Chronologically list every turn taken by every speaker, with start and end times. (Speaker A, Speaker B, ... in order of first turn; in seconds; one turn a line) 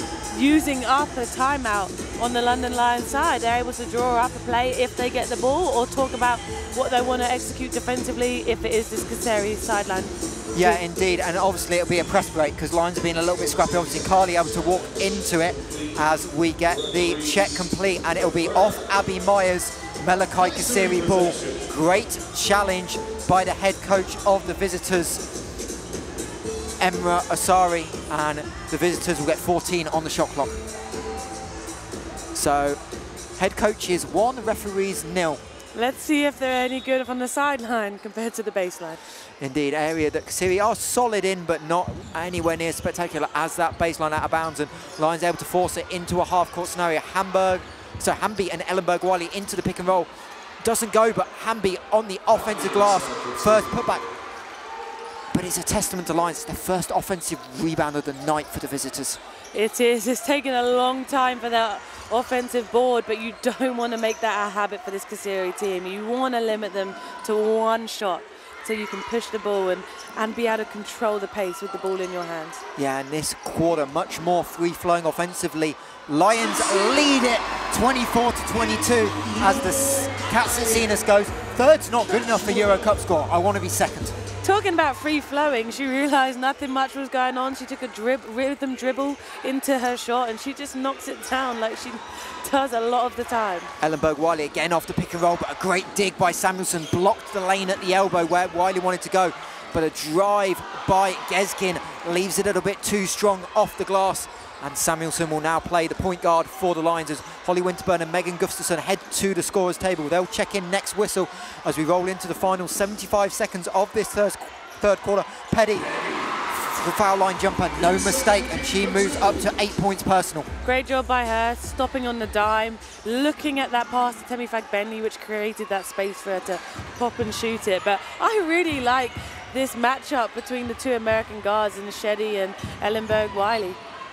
Speaker A: 0.3-10.8
Speaker B: 10.5-25.2
Speaker B: 26.8-30.6
Speaker B: 32.3-32.8
Speaker B: 33.4-35.4
Speaker A: 35.7-39.0
Speaker B: 39.4-50.1
Speaker B: 50.6-54.0
Speaker B: 55.3-59.2
Speaker A: 59.5-72.6
Speaker B: 72.8-84.2
Speaker A: 84.4-93.7
Speaker B: 93.8-115.9
Speaker B: 116.5-120.5
Speaker A: 120.6-133.8